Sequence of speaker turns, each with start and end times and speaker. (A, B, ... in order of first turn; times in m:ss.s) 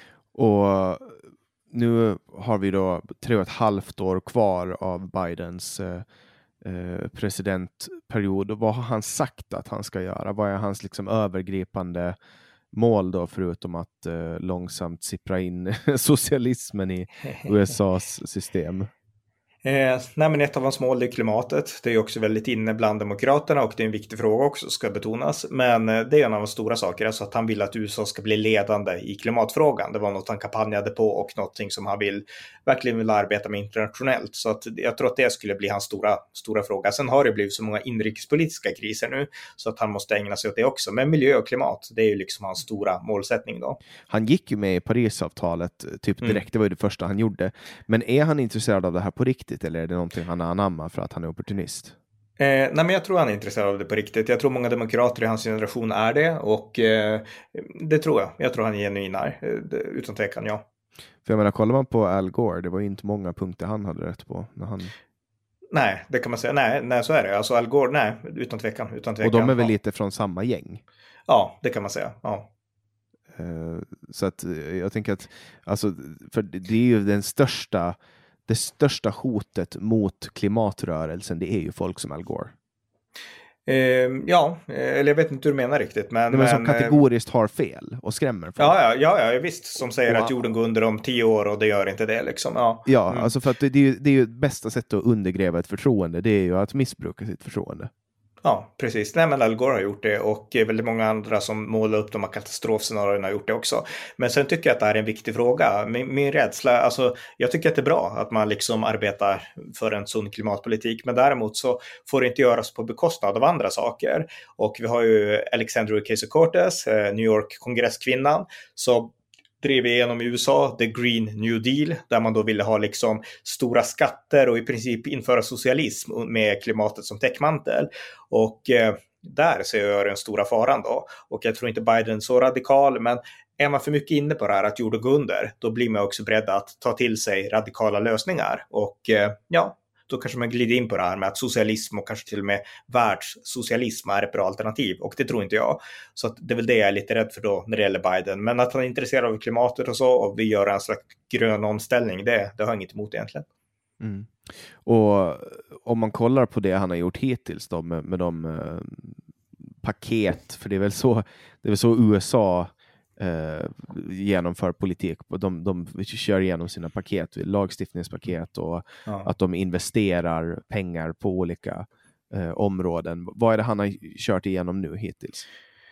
0:00.3-0:06.0 A
0:06.6-0:12.2 A
0:12.7-0:18.9 A
0:19.6-0:43.8 B
0:44.1-0:52.0 A
0:52.4-1:00.6 B
1:01.2-1:04.9 A
1:05.7-1:09.7 B
1:09.2-1:10.8 A
1:11.3-1:12.5 B
1:13.3-1:22.5 A
1:23.7-1:27.0 B
1:26.3-1:28.8 A
1:28.6-1:33.3 B
1:30.0-1:30.4 A
1:32.8-1:37.9 A
1:38.4-2:33.4 B
2:34.0-2:39.2 A
2:39.8-2:55.4 A